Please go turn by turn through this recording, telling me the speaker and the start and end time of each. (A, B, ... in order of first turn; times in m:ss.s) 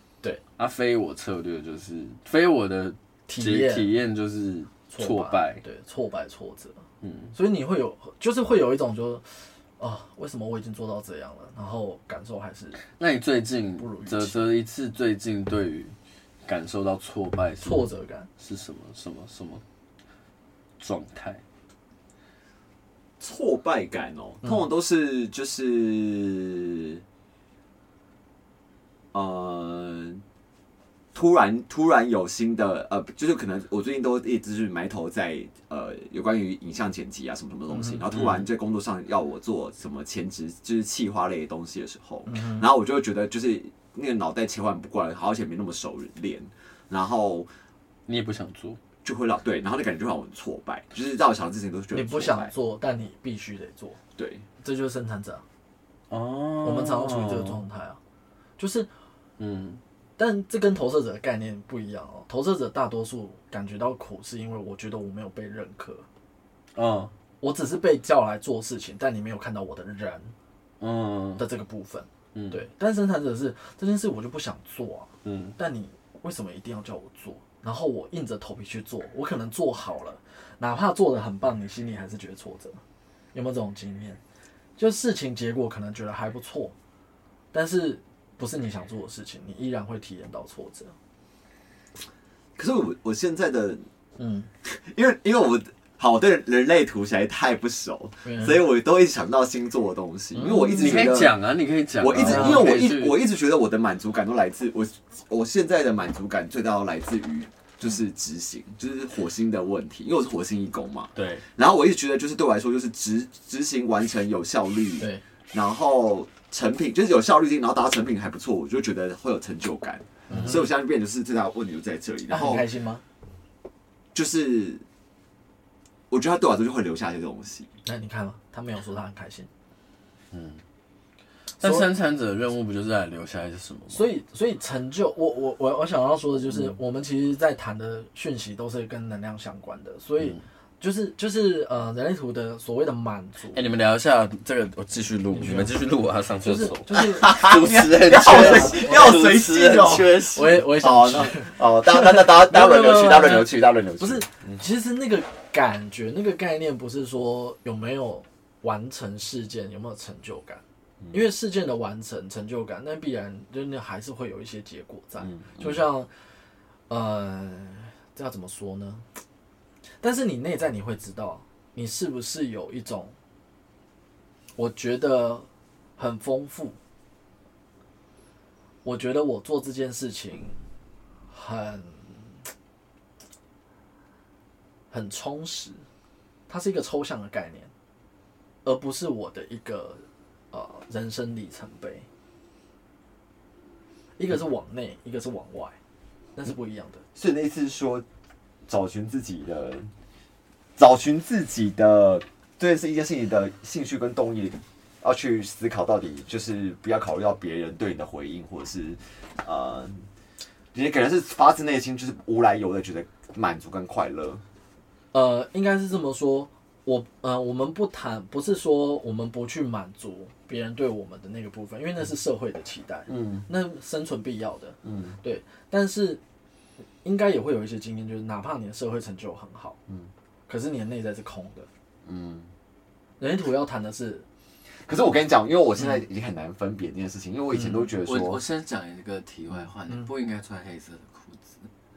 0:00.6-0:05.6 A
0:03.3-0:03.9 B
0:04.9-0:06.8 B
0:07.0-0:07.3 A
0:07.3-0:12.8 B
0:12.9-0:17.9 A
0:13.8-0:14.4 B
0:17.6-0:18.3 B
0:18.4-0:19.6 A
0:20.8-0:21.4 A
0:23.2-0:27.0 C
0:29.1-0:30.2 C
0:31.1-0:47.5 C
0:37.7-0:38.0 B
0:38.1-0:38.5 A
0:42.3-0:42.6 B
0:48.1-0:48.8 A
0:49.0-0:52.5 C
0:51.9-0:54.0 B
0:54.2-0:54.4 C
0:54.6-0:55.4 B
0:56.1-0:57.6 A
0:56.6-0:58.0 B
0:58.6-0:58.9 B
0:59.4-0:59.8 A
1:00.2-1:06.0 B
1:06.7-1:07.1 A
1:07.4-1:10.3 B
1:10.8-1:11.4 A
1:11.4-1:22.8 B
1:12.3-1:12.6 A
1:15.2-1:15.6 A
1:23.3-1:24.2 B
1:24.8-1:26.7 B
1:27.5-1:30.9 B
1:32.6-1:33.8 C
1:34.2-1:34.5 B
1:34.6-1:41.4 C
1:38.2-1:38.6 B
1:40.3-1:41.1 B
1:40.8-1:43.2 A
1:42.0-2:02.6 C
1:42.2-1:42.7 B
1:51.1-1:51.4 A
1:55.0-1:55.2 B
2:00.3-2:00.7 B
2:00.3-2:00.6 A
2:02.3-2:03.0 B
2:04.1-2:04.8 C
2:06.1-2:07.7 C
2:07.8-2:09.5 B
2:10.3-2:10.6 A
2:11.6-2:11.9 B
2:11.6-2:14.0 A
2:13.9-2:23.6 B
2:23.5-2:30.7 A
2:25.3-2:25.7 B
2:26.4-2:27.3 B
2:27.1-2:34.2 C
2:28.2-2:29.2 B
2:30.3-2:46.1 B
2:45.2-2:45.8 A
2:46.9-2:49.1 B
2:50.0-2:53.1 B
2:54.6-2:56.8 B
2:58.8-3:00.6 B
3:01.3-3:02.4 B
3:04.9-3:05.8 B
3:06.5-3:07.7 B
3:08.6-3:12.1 B
3:14.2-3:15.8 B
3:16.4-3:17.0 B
3:17.1-3:18.0 C
3:18.7-3:19.9 C
3:20.8-3:30.1 C
3:30.7-3:34.4 C
3:35.1-3:46.2 B
3:43.1-3:43.5 A
3:47.0-3:49.8 B
3:50.5-3:51.7 B
3:52.0-3:52.5 C
3:53.2-3:54.2 B
3:54.8-3:58.4 C
3:57.5-3:57.8 B
3:58.0-4:01.7 A